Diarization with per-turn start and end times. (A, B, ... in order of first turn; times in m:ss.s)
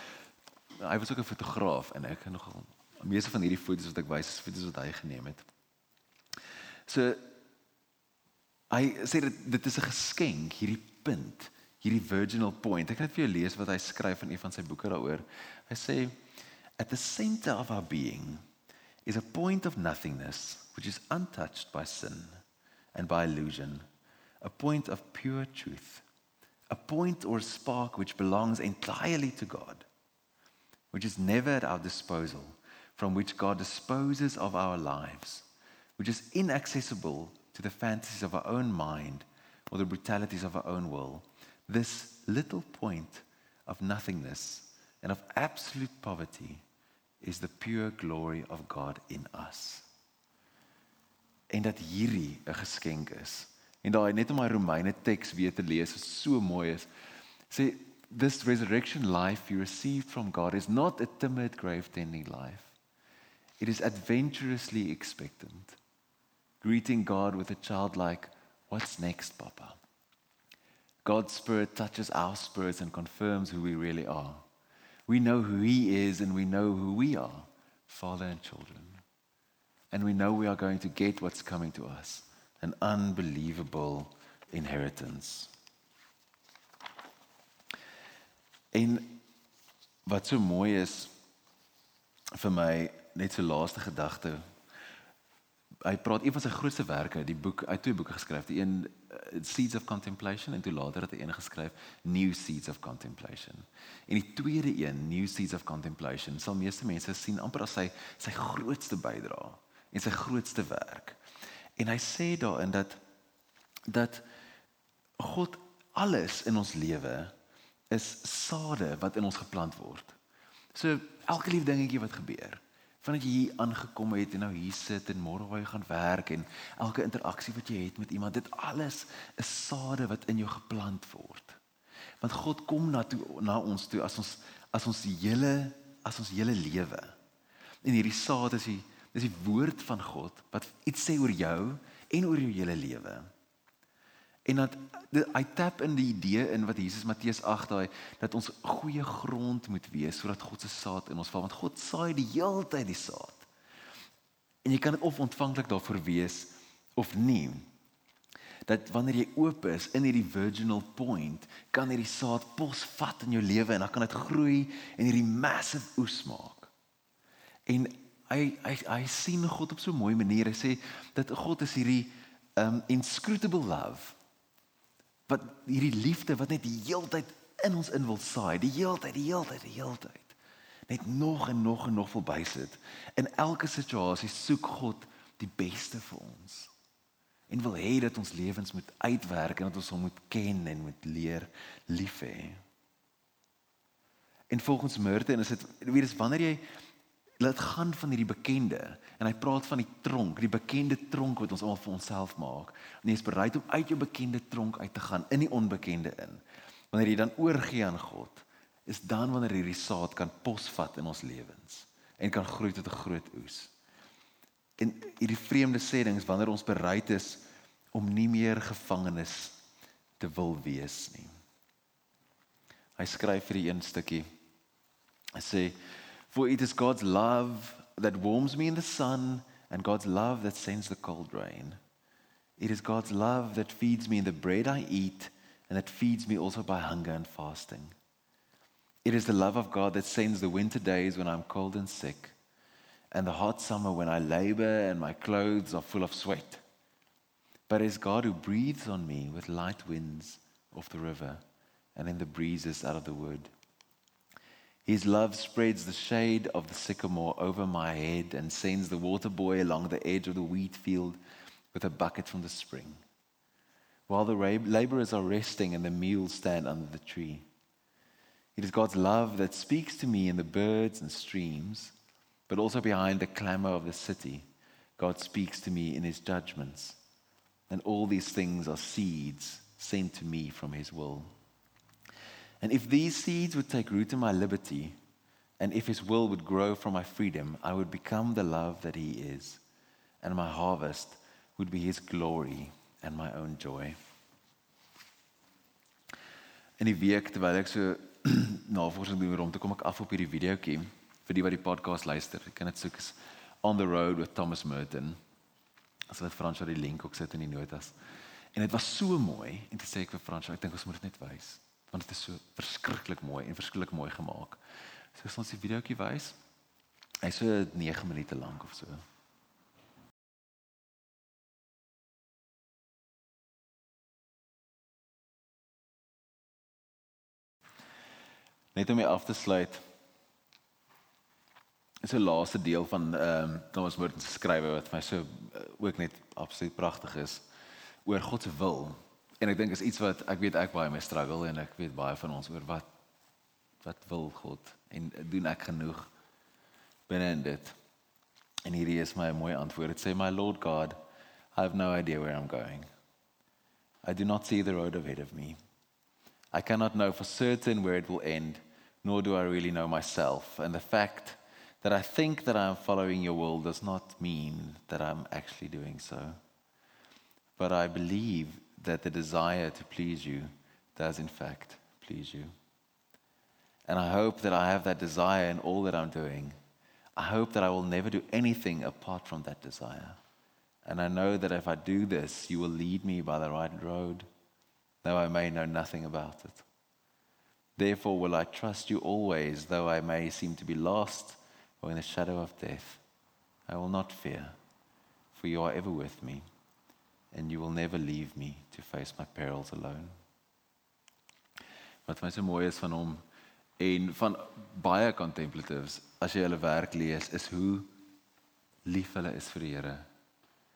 0:00.8-0:05.4 A
0:06.9-0:07.2 A
0:08.7-0:16.2 A
0:16.8-0:18.4 A
0:19.0-0:22.4 A
0:22.9-0:23.8 A
0:24.4-0:26.0 A
0:26.7-0:29.9 A
0:30.9-0:46.6 A
0:47.2-0:49.9 A
0:51.5-0:56.9 A
0:57.5-1:02.7 A
1:03.6-1:05.8 A
1:06.6-1:09.8 A
1:11.0-1:14.4 A
1:15.1-1:19.0 A
1:19.9-1:25.5 A
1:28.7-1:29.2 A
1:30.0-1:31.1 A
1:32.4-1:34.4 A
1:35.8-1:51.2 A
1:51.8-1:53.0 A
1:53.9-1:54.2 A
1:55.2-1:57.3 A
1:57.9-2:00.2 A
2:00.7-2:11.6 A
2:12.2-2:17.1 A
2:17.8-2:23.3 A
2:24.4-2:33.5 A
2:34.6-2:37.7 A
2:38.6-2:46.7 A
2:47.6-2:54.2 A
2:55.3-3:00.4 A
3:00.9-3:06.7 A
3:07.5-3:12.6 A
3:14.5-3:16.6 A
3:17.4-3:33.7 A
3:34.8-3:39.6 A
3:40.2-3:41.3 A
3:43.0-3:44.3 A
3:45.4-3:45.8 A
3:46.3-3:51.8 A
3:52.6-3:57.9 A
3:59.0-4:02.3 A
4:03.1-4:06.6 A
4:07.7-4:11.4 A
4:11.9-4:13.5 A
4:14.8-4:21.2 A
4:21.7-4:23.0 A
4:24.1-4:27.4 A
4:28.6-4:31.9 A
4:32.5-4:34.4 A
4:35.0-4:37.0 A
4:37.7-4:41.3 A
4:42.6-4:45.0 A
4:45.6-4:49.6 A
4:50.2-4:54.0 A
4:56.8-5:05.2 A
5:06.1-5:07.9 A
5:08.5-5:14.6 A
5:15.1-5:16.4 A
5:17.2-5:19.0 A
5:28.7-5:29.8 A
5:32.0-5:37.4 A
5:38.0-5:42.9 A
5:43.8-5:46.1 A
5:47.1-5:47.8 A
5:48.6-5:51.0 A
5:51.5-5:52.8 A
5:54.0-5:55.6 A
5:56.5-6:06.4 A
6:07.6-6:12.5 A
6:13.9-6:16.5 A
6:17.2-6:20.2 A
6:20.8-6:24.2 A
6:25.0-6:26.6 A
6:27.8-6:33.0 A
6:33.7-6:34.6 A
6:35.3-6:36.4 A
6:37.3-6:40.1 A
6:42.0-6:43.2 A
6:43.8-6:47.9 A
6:48.8-6:50.0 A